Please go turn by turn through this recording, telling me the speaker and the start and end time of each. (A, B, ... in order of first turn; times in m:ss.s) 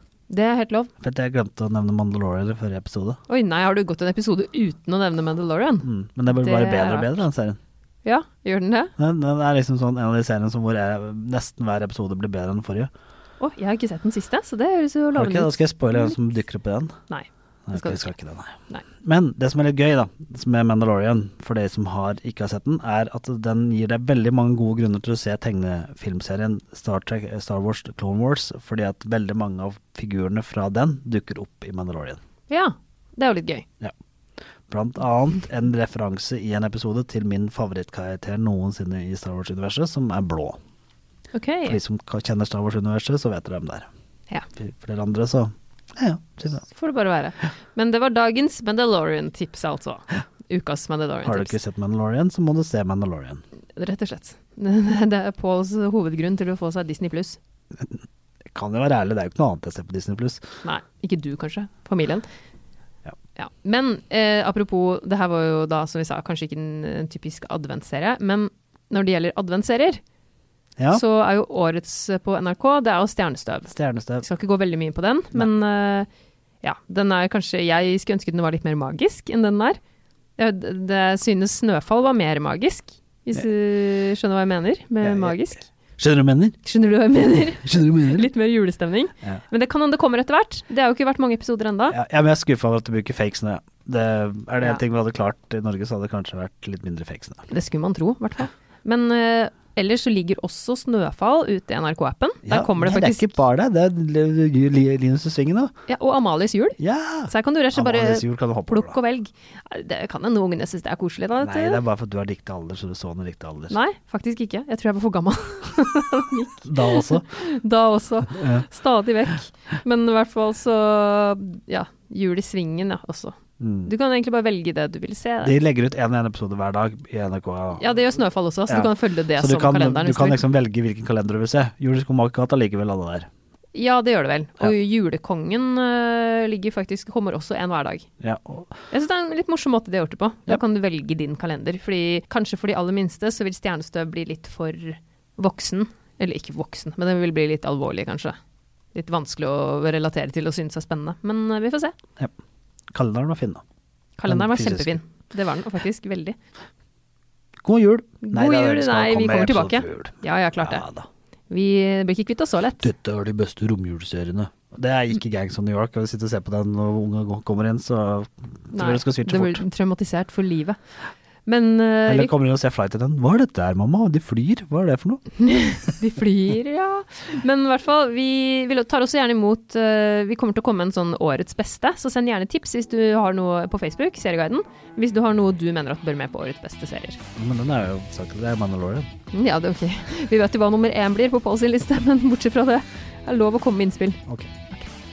0:00.3-0:00.9 A
0:01.0-0:03.2 B
0:03.3-0:07.2 A
0:05.8-0:07.6 B
0:08.0-0:08.9 A
0:09.0-0:12.9 B
0:13.4-0:16.1 A
0:15.1-0:16.9 B
0:17.1-0:18.1 A
0:17.7-0:32.2 B
0:32.5-0:33.6 A
0:34.7-0:40.6 B
0:41.3-0:41.8 A
0:41.7-0:43.9 B
0:44.6-0:46.6 B
0:46.7-0:51.5 A
0:51.2-0:53.4 B
0:53.8-0:57.4 A
0:58.5-1:00.4 B
1:00.6-1:02.3 A
1:03.4-1:10.0 A
1:10.9-1:16.1 A
1:13.7-1:14.2 B
1:16.6-1:19.8 A
1:20.4-1:25.6 A
1:25.0-1:25.4 B
1:26.0-1:26.6 B
1:26.6-1:32.0 A
1:27.6-1:28.3 B
1:31.9-1:37.4 B
1:37.5-1:43.4 A
1:42.4-1:45.7 B
1:45.9-1:46.8 A
1:46.8-1:49.0 B
1:47.3-1:51.8 A
1:51.4-1:53.8 B
1:53.7-2:05.6 A
1:56.6-1:57.4 B
1:58.3-1:58.7 B
2:03.6-2:03.9 B
2:05.4-2:07.9 B
2:07.8-2:10.4 A
2:08.7-2:13.3 B
2:13.7-2:18.1 A
2:18.2-2:18.7 B
2:18.9-2:28.4 A
2:28.9-2:31.9 A
2:32.9-2:33.6 B
2:34.2-2:36.4 A
2:34.2-2:35.0 B
2:37.6-2:41.1 B
2:38.2-2:40.8 A
2:41.5-2:42.9 A
2:42.8-2:49.6 B
2:48.7-2:50.8 A
2:51.4-2:52.3 A
2:52.0-2:55.2 B
2:55.4-3:07.2 A
3:07.4-3:09.1 B
3:09.3-3:14.9 A
3:14.3-3:14.5 B